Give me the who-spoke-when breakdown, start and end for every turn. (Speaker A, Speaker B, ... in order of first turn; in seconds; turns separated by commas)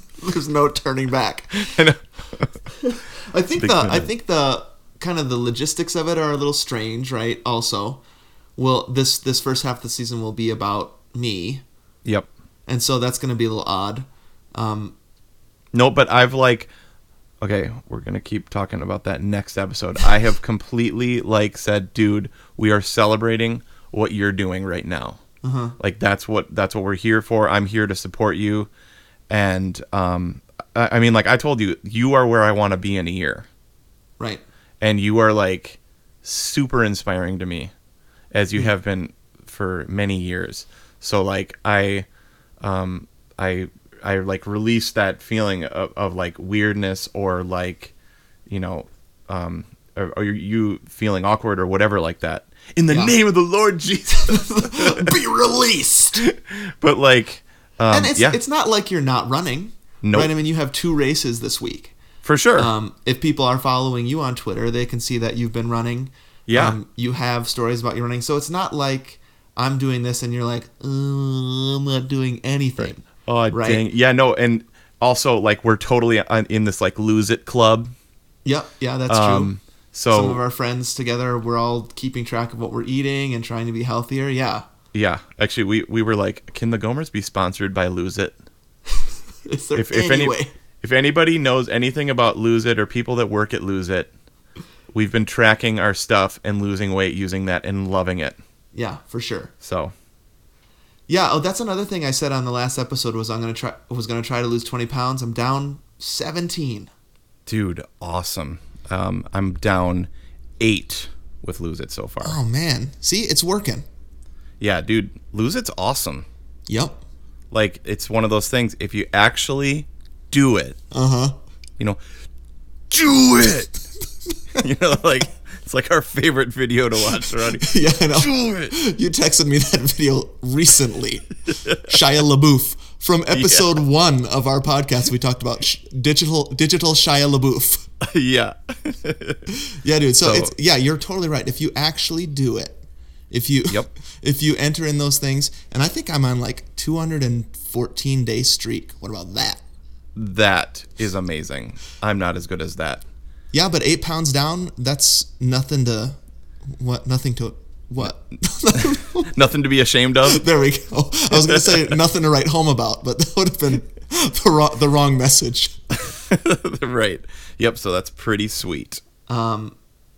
Speaker A: 0.2-1.8, Speaker B: 1.6-2.6, Speaker A: 2.8-8.0, Speaker B: 3.6-4.1, Speaker A: 8.6-11.6, Speaker A: 12.7-14.9, Speaker B: 15.7-16.7, Speaker B: 17.4-25.2, Speaker A: 25.4-25.8, Speaker B: 25.8-28.7, Speaker B: 29.3-33.5, Speaker B: 34.8-37.7, Speaker B: 38.3-42.1, Speaker B: 42.6-47.9, Speaker B: 48.5-55.1, Speaker A: 52.9-53.1, Speaker A: 54.3-56.2, Speaker B: 56.2-58.4, Speaker A: 57.9-61.9, Speaker B: 60.0-60.3, Speaker B: 62.2-62.7, Speaker A: 62.6-73.8, Speaker B: 66.5-66.8, Speaker B: 72.8-77.9, Speaker A: 78.5-79.5, Speaker B: 79.1-80.4, Speaker A: 80.1-84.7, Speaker B: 84.9-88.4, Speaker A: 89.5-90.5, Speaker B: 89.8-94.1, Speaker B: 94.9-98.4, Speaker A: 98.7-99.5, Speaker B: 99.6-99.9, Speaker A: 101.1-106.9, Speaker B: 107.5-112.4, Speaker A: 112.2-113.9, Speaker B: 114.6-116.3, Speaker A: 116.7-117.0, Speaker B: 117.5-120.8, Speaker A: 120.9-121.4, Speaker B: 122.9-123.8, Speaker B: 124.6-128.7, Speaker A: 127.6-137.9, Speaker B: 131.6-132.0, Speaker B: 133.3-133.8, Speaker B: 138.0-139.4, Speaker A: 139.7-149.6, Speaker B: 140.2-140.5, Speaker B: 150.2-153.0, Speaker A: 153.5-156.2, Speaker A: 156.7-159.3, Speaker B: 158.8-160.4, Speaker A: 160.3-165.8, Speaker B: 161.3-162.0, Speaker B: 166.1-169.0, Speaker A: 169.3-169.8